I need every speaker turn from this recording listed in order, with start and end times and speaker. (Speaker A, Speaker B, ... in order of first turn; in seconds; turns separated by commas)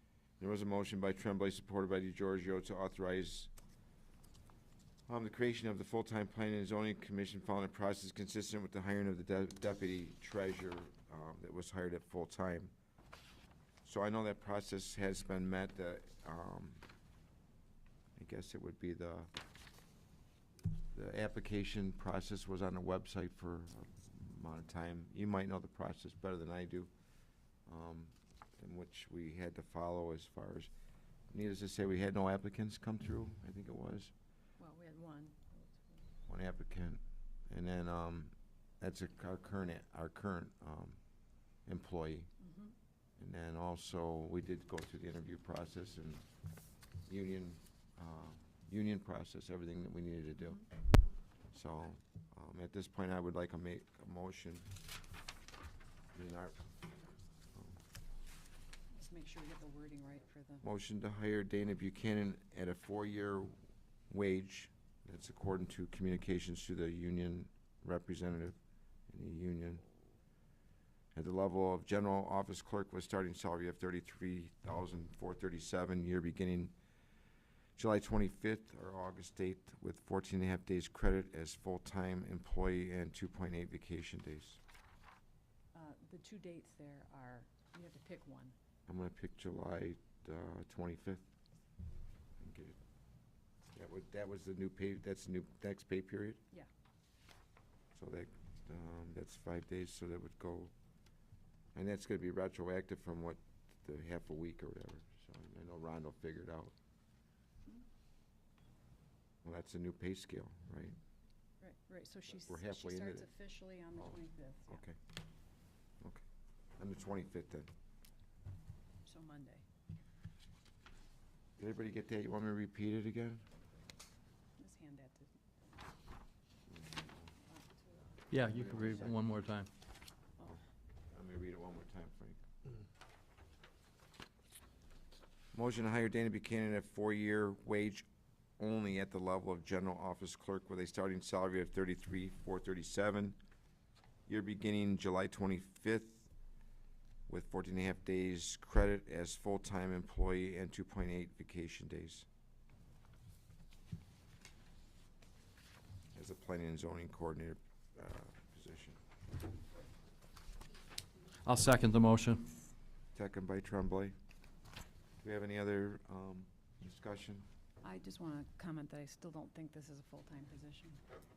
Speaker A: 0.4-3.5, Speaker A: 5.1-12.7, Speaker A: 13.8-16.8, Speaker A: 18.1-19.3, Speaker A: 20.9-26.9, Speaker A: 27.7-30.7, Speaker A: 31.3-34.1, Speaker B: 34.6-35.8, Speaker A: 36.3-41.0, Speaker A: 41.6-42.3, Speaker B: 42.4-42.7, Speaker A: 43.2-46.2, Speaker A: 47.0-50.6, Speaker A: 51.5-54.6, Speaker A: 56.1-56.6, Speaker B: 58.9-60.6, Speaker A: 60.6-63.6, Speaker A: 64.1-68.6, Speaker A: 69.1-69.8, Speaker A: 71.1-76.7, Speaker A: 77.8-84.6, Speaker B: 85.7-88.5, Speaker A: 88.9-91.2, Speaker A: 92.4-92.8, Speaker A: 93.7-96.4, Speaker A: 97.9-100.7, Speaker A: 101.7-106.7, Speaker A: 109.4-111.0, Speaker B: 111.6-114.8, Speaker A: 112.3-113.3, Speaker A: 114.7-115.0, Speaker A: 116.8-117.7, Speaker B: 119.0-119.6, Speaker A: 121.6-123.4, Speaker B: 124.6-125.3, Speaker A: 126.7-127.3, Speaker B: 127.4-129.0, Speaker C: 128.3-129.7, Speaker A: 128.4-129.2, Speaker A: 131.1-132.4, Speaker A: 135.5-138.1, Speaker A: 138.6-143.4, Speaker A: 144.3-146.3, Speaker A: 147.3-152.2, Speaker A: 156.1-159.0, Speaker C: 161.4-162.5, Speaker A: 163.1-164.1, Speaker A: 165.2-167.4, Speaker B: 167.8-171.0